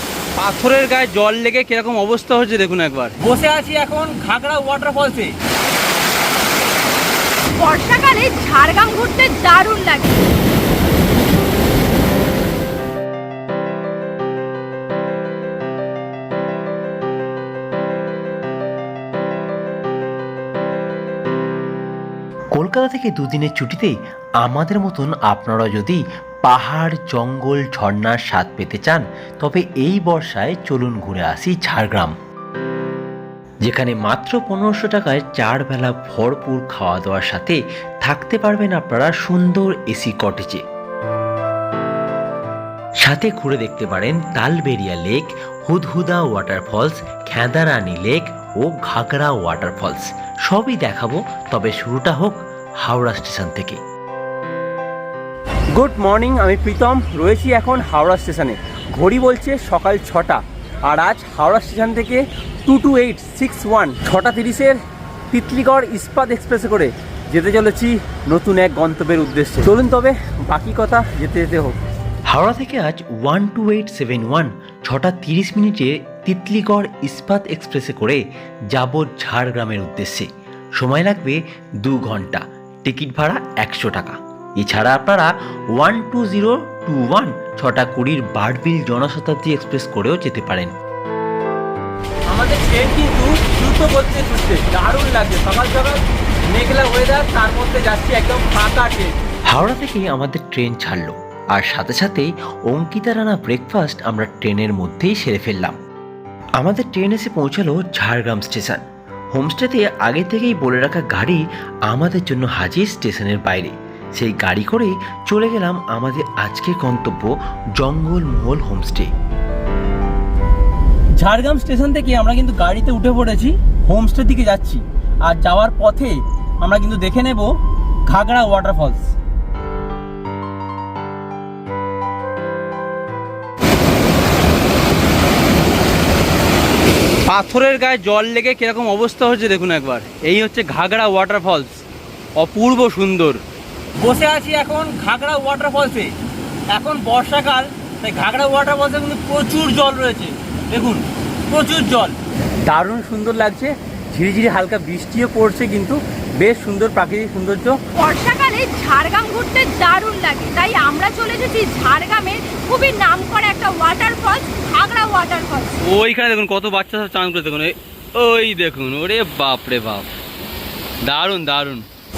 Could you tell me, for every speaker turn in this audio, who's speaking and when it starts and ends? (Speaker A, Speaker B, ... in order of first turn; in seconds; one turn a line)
Speaker A: 0.4-5.4
Speaker B: 7.6-10.2
Speaker C: 22.5-32.1
Speaker C: 33.6-40.6
Speaker C: 43.0-53.8
Speaker A: 55.7-64.8
Speaker A: 65.3-71.8
Speaker C: 72.3-78.2
Speaker C: 78.7-80.3
Speaker C: 80.8-90.7
Speaker A: 92.3-99.1
Speaker C: 99.5-105.8
Speaker C: 106.6-119.1
Speaker A: 121.2-129.1
Speaker A: 137.3-141.8
Speaker A: 142.4-143.4
Speaker A: 144.0-146.1
Speaker A: 146.7-157.8
Speaker B: 157.9-165.8
Speaker A: 165.8-170.1
Speaker A: 171.0-171.9